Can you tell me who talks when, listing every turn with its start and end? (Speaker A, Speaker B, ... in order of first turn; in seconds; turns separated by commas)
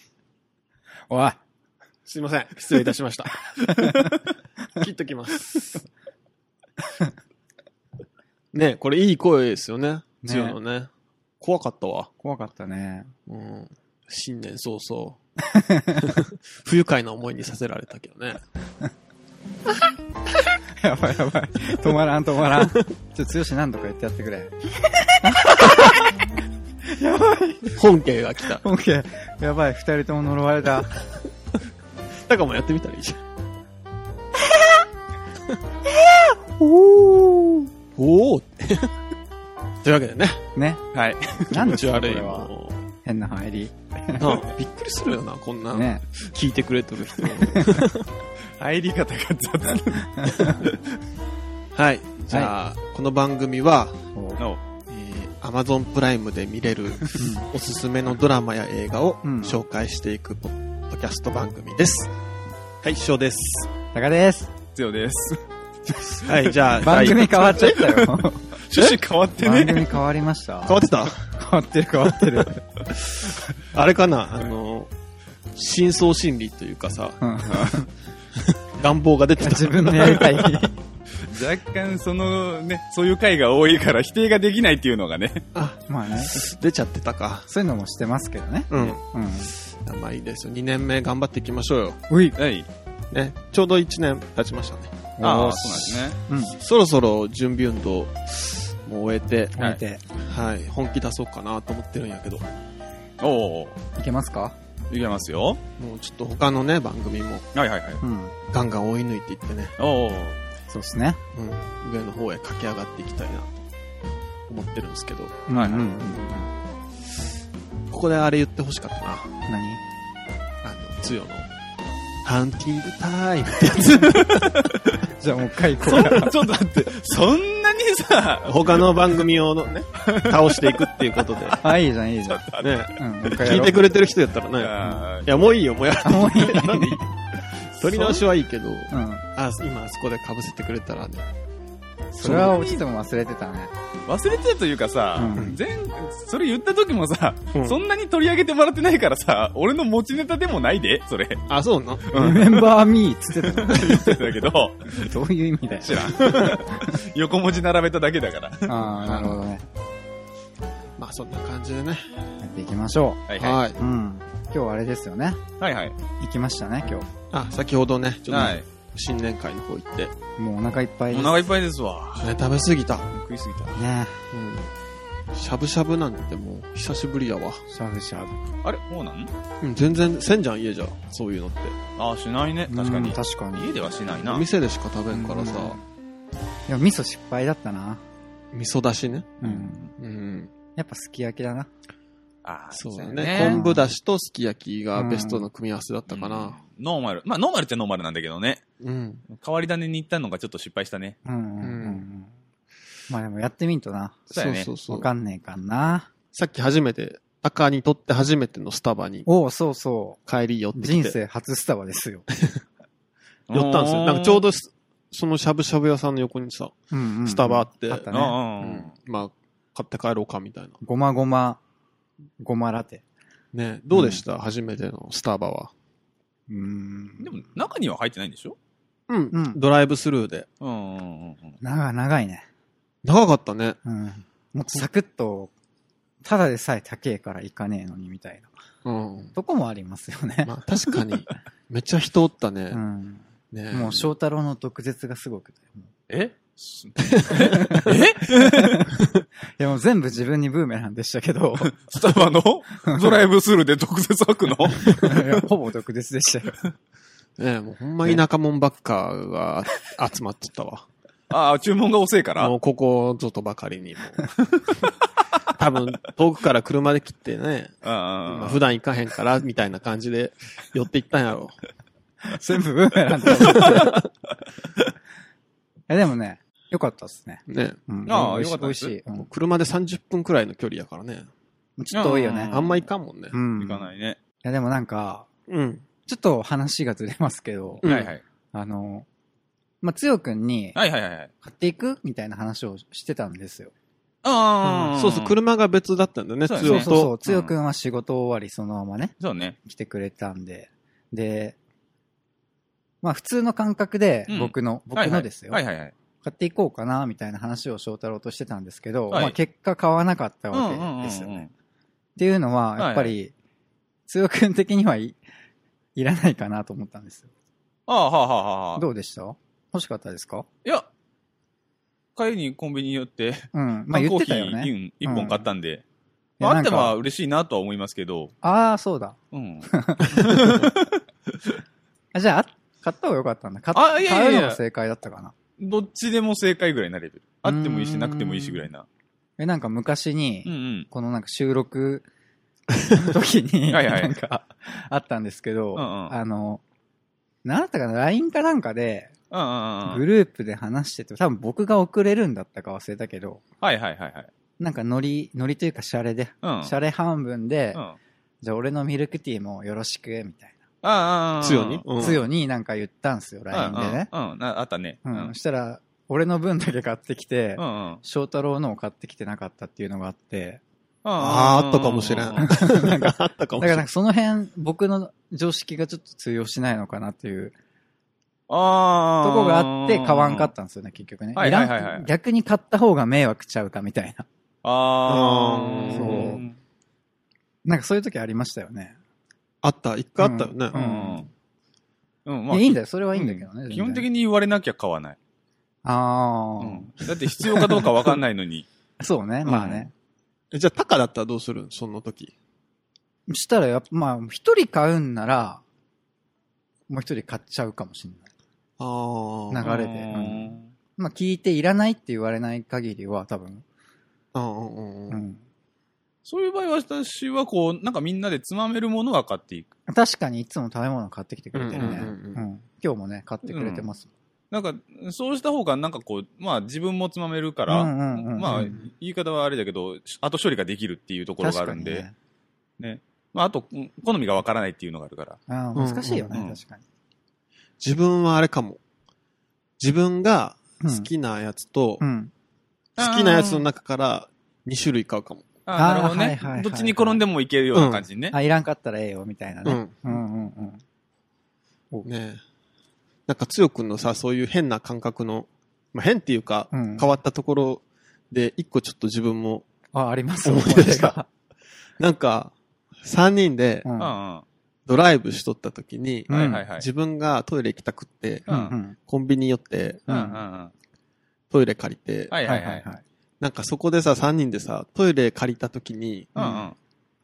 Speaker A: 1.1-1.4, Speaker B: 2.0-3.3, Speaker C: 3.6-4.1, Speaker A: 3.8-4.1, Speaker B: 4.8-5.8, Speaker B: 8.5-10.9, Speaker A: 10.2-10.6, Speaker B: 11.4-12.1, Speaker A: 12.2-13.1, Speaker B: 13.3-15.2, Speaker A: 15.4-16.2, Speaker B: 16.0-18.4, Speaker A: 20.8-24.5, Speaker A: 25.1-26.1, Speaker A: 26.9-27.8, Speaker B: 27.7-28.6, Speaker A: 28.5-30.9, Speaker B: 32.3-33.2, Speaker A: 36.6-37.7, Speaker B: 37.9-38.9, Speaker B: 39.8-40.4, Speaker A: 40.5-40.8, Speaker C: 40.9-41.4, Speaker A: 41.5-42.5, Speaker B: 41.5-42.8, Speaker A: 43.0-44.3, Speaker B: 44.2-48.1, Speaker A: 45.7-46.0, Speaker A: 47.5-47.8, Speaker C: 48.6-50.9, Speaker A: 50.1-50.7, Speaker B: 51.7-54.0, Speaker A: 54.1-54.4, Speaker B: 54.9-62.1, Speaker A: 57.1-57.5, Speaker A: 59.2-59.6, Speaker B: 62.8-63.7, Speaker A: 63.9-64.5, Speaker C: 64.8-65.4, Speaker B: 65.9-67.7, Speaker C: 66.2-69.9, Speaker A: 66.8-72.6, Speaker B: 70.6-71.2, Speaker B: 73.1-74.9, Speaker B: 75.5-77.7, Speaker A: 77.2-77.9, Speaker B: 78.3-80.5, Speaker A: 79.4-80.8, Speaker C: 81.2-85.4, Speaker B: 85.5-87.5, Speaker A: 85.9-86.4, Speaker A: 87.5-89.5, Speaker B: 88.7-89.0, Speaker B: 89.5-92.0, Speaker A: 92.1-92.4, Speaker C: 92.4-92.7, Speaker B: 93.1-95.0, Speaker A: 95.2-96.5, Speaker C: 95.2-96.2, Speaker B: 96.6-99.6, Speaker A: 99.5-100.0, Speaker B: 100.2-102.5, Speaker C: 103.2-103.8, Speaker A: 104.0-104.5, Speaker C: 104.9-105.6, Speaker B: 105.8-107.5, Speaker C: 107.5-108.0, Speaker A: 108.0-108.3, Speaker B: 108.5-109.7, Speaker C: 109.8-110.4, Speaker A: 110.7-111.2, Speaker B: 111.3-113.5, Speaker B: 114.5-115.4, Speaker A: 115.5-116.5, Speaker C: 115.5-115.9, Speaker B: 117.9-119.3, Speaker A: 119.5-119.8, Speaker B: 120.6-121.5, Speaker B: 122.2-124.5, Speaker C: 124.3-125.0, Speaker A: 125.2-126.3, Speaker C: 125.8-129.0, Speaker B: 125.9-126.3, Speaker B: 128.4-131.6, Speaker C: 130.0-131.6, Speaker A: 131.6-133.8, Speaker C: 132.3-133.7, Speaker B: 132.6-137.0, Speaker C: 134.6-135.3, Speaker A: 136.0-137.0, Speaker B: 137.8-141.2, Speaker A: 138.9-139.2, Speaker A: 142.1-143.7, Speaker C: 142.2-142.8, Speaker C: 144.1-151.4, Speaker A: 145.2-145.6, Speaker B: 151.5-152.3, Speaker C: 152.1-152.6, Speaker A: 152.1-154.0, Speaker C: 153.6-155.1, Speaker B: 153.7-154.3, Speaker A: 155.0-156.9, Speaker C: 155.8-158.7, Speaker B: 156.2-156.6, Speaker A: 158.7-159.6, Speaker B: 159.0-159.4, Speaker B: 161.0-162.0, Speaker A: 162.4-163.2, Speaker C: 163.3-163.6, Speaker B: 163.4-163.8, Speaker A: 163.8-165.4, Speaker C: 165.6-165.9, Speaker A: 166.2-167.1, Speaker B: 167.3-170.1, Speaker C: 168.3-168.6, Speaker A: 170.4-171.3, Speaker C: 171.1-172.3, Speaker B: 172.2-173.1, Speaker C: 173.1-173.8, Speaker A: 173.7-174.1, Speaker B: 174.3-174.7, Speaker B: 175.3-177.6, Speaker A: 177.7-178.4, Speaker C: 178.6-179.3, Speaker B: 179.6-181.8, Speaker C: 182.0-184.4, Speaker A: 182.7-183.7, Speaker B: 184.2-185.8, Speaker A: 185.1-185.8, Speaker A: 186.7-188.0, Speaker B: 188.5-189.4, Speaker A: 189.4-189.9, Speaker C: 189.4-189.9, Speaker B: 190.0-190.5, Speaker A: 190.8-191.7, Speaker C: 192.4-193.6, Speaker B: 192.7-196.6, Speaker A: 193.3-193.8, Speaker A: 194.9-195.5, Speaker C: 196.1-198.6, Speaker B: 198.8-199.2, Speaker C: 199.3-201.2, Speaker A: 201.2-202.3, Speaker B: 201.6-202.0, Speaker A: 203.1-204.3, Speaker C: 204.3-204.7, Speaker B: 204.3-205.1, Speaker A: 204.8-206.1, Speaker B: 206.3-209.3, Speaker A: 209.2-210.2, Speaker B: 210.3-211.2, Speaker A: 210.7-212.2, Speaker B: 212.3-212.6, Speaker C: 213.5-214.4, Speaker B: 213.5-218.1, Speaker A: 216.9-218.4, Speaker C: 218.1-218.9, Speaker B: 218.6-220.8, Speaker A: 220.8-221.6, Speaker A: 222.4-223.0, Speaker B: 223.5-225.7, Speaker A: 223.9-224.2, Speaker A: 226.5-227.4, Speaker C: 227.2-228.6, Speaker B: 229.1-230.5, Speaker A: 229.3-229.6, Speaker C: 230.6-231.6, Speaker A: 231.6-232.4, Speaker B: 233.0-233.8, Speaker A: 233.8-235.5, Speaker A: 236.2-238.5, Speaker B: 238.8-239.3, Speaker A: 239.3-241.0, Speaker B: 240.4-242.8, Speaker A: 242.7-245.9, Speaker B: 243.5-244.1, Speaker C: 246.1-248.9, Speaker B: 247.0-248.1, Speaker A: 247.3-249.0, Speaker A: 249.6-251.7, Speaker C: 251.6-255.4, Speaker A: 252.8-253.1, Speaker A: 254.9-256.6, Speaker B: 257.4-260.9, Speaker C: 261.3-262.5, Speaker B: 262.4-264.9, Speaker B: 265.5-267.7, Speaker C: 267.8-268.6, Speaker B: 268.2-271.5, Speaker A: 272.3-274.0, Speaker C: 273.5-273.9, Speaker A: 275.9-279.3, Speaker B: 277.5-277.8, Speaker C: 278.1-278.9, Speaker B: 279.2-281.3, Speaker A: 281.8-282.6, Speaker C: 281.9-282.8, Speaker B: 282.5-283.4, Speaker A: 283.3-283.9, Speaker C: 283.6-284.2, Speaker A: 284.4-285.3, Speaker B: 285.5-285.8, Speaker A: 286.1-287.9, Speaker B: 287.8-288.1, Speaker C: 287.8-288.2, Speaker A: 288.5-289.1, Speaker A: 289.8-290.8, Speaker C: 290.8-291.3, Speaker A: 291.4-293.7, Speaker C: 294.2-295.3, Speaker A: 294.6-294.9, Speaker B: 294.9-297.1, Speaker C: 296.5-297.5, Speaker A: 296.6-301.6, Speaker C: 299.2-299.6, Speaker A: 303.0-305.6, Speaker C: 304.3-305.9, Speaker A: 306.2-311.4, Speaker C: 309.1-309.4, Speaker C: 310.5-311.5, Speaker A: 312.2-313.3, Speaker C: 312.8-313.1, Speaker A: 314.1-315.2, Speaker A: 315.9-317.3, Speaker C: 317.9-318.8, Speaker A: 318.8-320.5, Speaker C: 322.1-325.8, Speaker A: 323.5-325.5, Speaker A: 326.4-327.0, Speaker C: 326.4-328.3, Speaker A: 328.4-329.1, Speaker C: 329.3-330.9, Speaker A: 329.7-330.7, Speaker A: 332.1-335.3, Speaker C: 333.7-334.6, Speaker C: 335.6-338.9, Speaker A: 337.4-338.7, Speaker A: 339.4-342.1, Speaker C: 340.4-340.9, Speaker A: 342.9-346.6, Speaker C: 343.7-344.1, Speaker C: 345.8-346.1, Speaker A: 347.4-349.1, Speaker C: 349.3-350.0, Speaker A: 349.8-353.4, Speaker C: 353.6-354.3, Speaker A: 354.6-357.8, Speaker C: 356.4-356.7, Speaker A: 358.4-360.6, Speaker C: 360.8-361.8, Speaker B: 361.4-362.2, Speaker A: 362.0-364.1, Speaker C: 363.5-365.3, Speaker A: 365.1-370.6, Speaker C: 367.6-368.0, Speaker C: 371.0-372.4, Speaker B: 371.2-373.8, Speaker A: 372.4-377.5, Speaker C: 378.5-380.5, Speaker A: 379.2-384.2, Speaker C: 381.4-382.1, Speaker C: 384.6-386.5, Speaker B: 385.1-386.4, Speaker A: 385.9-386.4, Speaker A: 387.6-389.0, Speaker B: 389.6-390.7, Speaker A: 390.2-391.2, Speaker C: 390.7-391.3, Speaker C: 392.2-395.2, Speaker A: 392.5-394.1, Speaker A: 395.8-397.6, Speaker C: 396.6-398.6, Speaker A: 399.0-399.9, Speaker C: 399.4-399.9, Speaker B: 400.5-402.3, Speaker A: 403.3-405.6, Speaker A: 406.9-408.3, Speaker B: 408.8-409.6, Speaker A: 409.5-413.6, Speaker C: 409.6-410.7, Speaker B: 414.3-415.2, Speaker A: 415.1-415.4, Speaker C: 416.2-419.7, Speaker A: 419.9-424.1, Speaker B: 421.5-422.4, Speaker C: 421.8-422.0, Speaker C: 423.5-423.9, Speaker C: 424.5-432.0, Speaker A: 427.7-428.8, Speaker B: 428.5-428.8, Speaker A: 431.4-432.1, Speaker C: 432.8-435.4, Speaker A: 435.5-436.8, Speaker B: 435.7-436.3, Speaker C: 436.3-436.6, Speaker B: 437.8-438.8, Speaker B: 439.8-442.0, Speaker A: 440.8-441.1, Speaker A: 442.0-442.3, Speaker C: 443.0-443.6, Speaker B: 443.0-445.5, Speaker C: 445.6-448.3, Speaker A: 445.7-447.2, Speaker B: 447.7-448.0, Speaker A: 448.3-450.8, Speaker B: 449.6-449.9, Speaker B: 452.0-452.4, Speaker B: 453.3-459.6, Speaker A: 456.7-457.1, Speaker A: 459.9-461.3, Speaker B: 460.4-461.1, Speaker B: 462.0-463.9, Speaker A: 463.8-464.1, Speaker C: 464.0-464.4, Speaker B: 464.9-468.5, Speaker A: 466.3-466.7, Speaker C: 466.3-466.9, Speaker C: 468.5-468.7, Speaker A: 468.5-468.9, Speaker B: 469.0-470.1, Speaker C: 470.1-470.7, Speaker A: 470.1-470.4, Speaker B: 471.5-472.3, Speaker C: 472.3-472.9, Speaker A: 472.4-473.0, Speaker B: 473.4-476.3, Speaker C: 476.3-476.8, Speaker A: 476.4-476.7